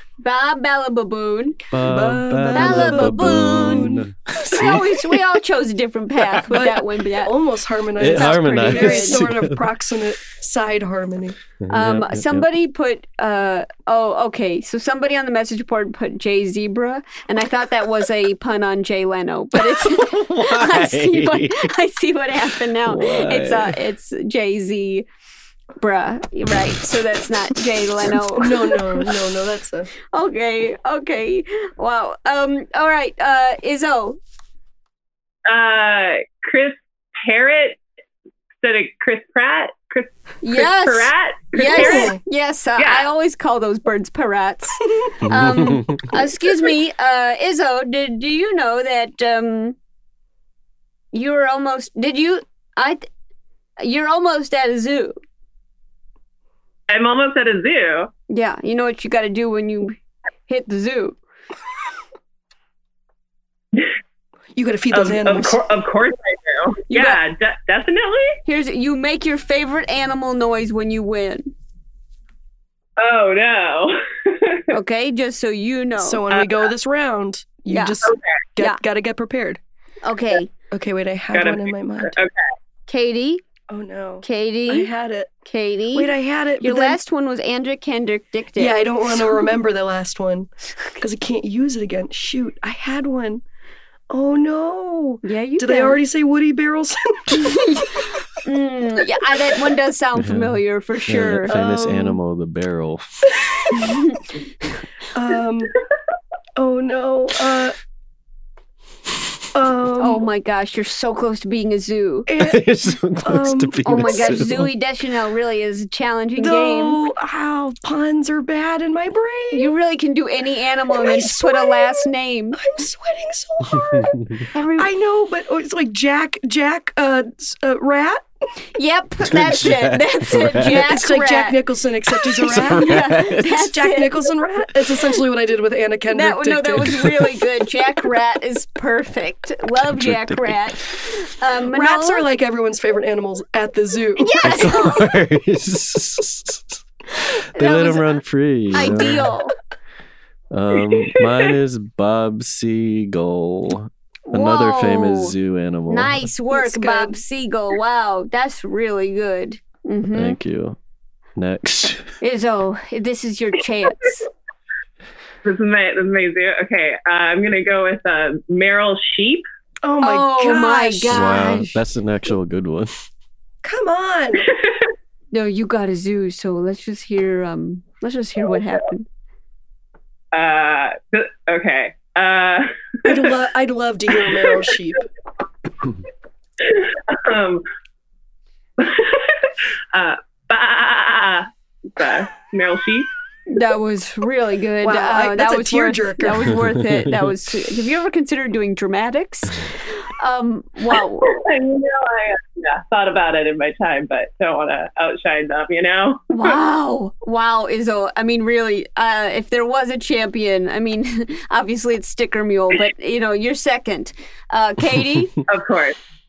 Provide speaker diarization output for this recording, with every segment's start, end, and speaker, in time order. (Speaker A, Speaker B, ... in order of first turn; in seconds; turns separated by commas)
Speaker A: 0.2-1.6, Speaker B: 1.7-4.9, Speaker C: 1.8-4.1, Speaker A: 2.5-4.0, Speaker A: 4.5-7.3, Speaker C: 6.5-11.3, Speaker B: 8.0-9.7, Speaker A: 8.0-9.3, Speaker B: 11.6-12.5, Speaker A: 11.7-25.1, Speaker B: 19.8-21.7, Speaker B: 22.8-23.8, Speaker A: 25.8-29.0, Speaker C: 28.4-29.9, Speaker A: 30.1-34.2, Speaker D: 35.5-37.8, Speaker D: 38.6-42.1, Speaker A: 40.4-49.8, Speaker C: 41.7-42.2, Speaker D: 42.8-43.1, Speaker B: 45.2-46.1, Speaker A: 51.1-53.0, Speaker A: 53.8-55.1, Speaker D: 56.9-58.1, Speaker A: 58.3-60.0, Speaker A: 60.5-61.2, Speaker C: 64.5-65.6, Speaker D: 64.9-68.4, Speaker A: 66.9-67.2, Speaker A: 68.5-71.5, Speaker D: 73.0-74.7, Speaker A: 74.7-76.3, Speaker C: 76.0-79.6, Speaker A: 77.7-78.0, Speaker A: 80.0-80.5, Speaker C: 80.7-82.2, Speaker D: 81.3-82.3, Speaker A: 82.9-83.4, Speaker C: 83.7-85.3, Speaker A: 84.2-84.9, Speaker A: 85.5-89.2, Speaker C: 85.9-87.0, Speaker C: 88.6-93.4, Speaker C: 94.1-97.5, Speaker A: 95.2-96.0, Speaker A: 97.3-101.6, Speaker B: 100.2-103.1, Speaker C: 101.5-102.2, Speaker A: 103.7-104.3, Speaker C: 105.1-105.7, Speaker C: 106.6-107.8, Speaker C: 109.5-110.3, Speaker A: 110.0-112.3, Speaker C: 112.3-112.7, Speaker B: 112.4-114.7, Speaker C: 113.2-114.5, Speaker A: 113.8-117.0, Speaker C: 116.4-119.7, Speaker A: 119.5-122.6, Speaker C: 120.9-124.2, Speaker B: 124.0-124.4, Speaker A: 124.5-124.9, Speaker C: 124.8-128.3, Speaker A: 128.8-131.6, Speaker B: 129.2-130.9, Speaker C: 130.6-137.2, Speaker B: 132.3-133.5, Speaker A: 132.5-134.3, Speaker A: 136.1-142.2, Speaker B: 139.9-140.6, Speaker C: 141.7-144.4, Speaker A: 144.2-145.1, Speaker B: 144.4-146.8, Speaker A: 147.5-149.5, Speaker B: 147.6-149.3, Speaker B: 150.5-156.3, Speaker A: 154.3-155.3, Speaker A: 155.9-160.4, Speaker C: 156.5-157.2, Speaker B: 160.1-160.8, Speaker B: 161.4-162.1, Speaker A: 162.2-164.3, Speaker D: 165.4-169.4, Speaker C: 169.8-171.3, Speaker A: 170.0-171.8, Speaker B: 171.1-172.9, Speaker C: 173.6-174.5, Speaker A: 175.3-179.1, Speaker D: 180.3-183.3, Speaker C: 183.1-185.0, Speaker D: 186.6-187.6, Speaker D: 188.8-193.1, Speaker A: 193.5-201.4, Speaker C: 194.8-196.6, Speaker B: 196.5-197.1, Speaker D: 201.2-206.6, Speaker A: 206.3-215.3, Speaker D: 215.5-216.0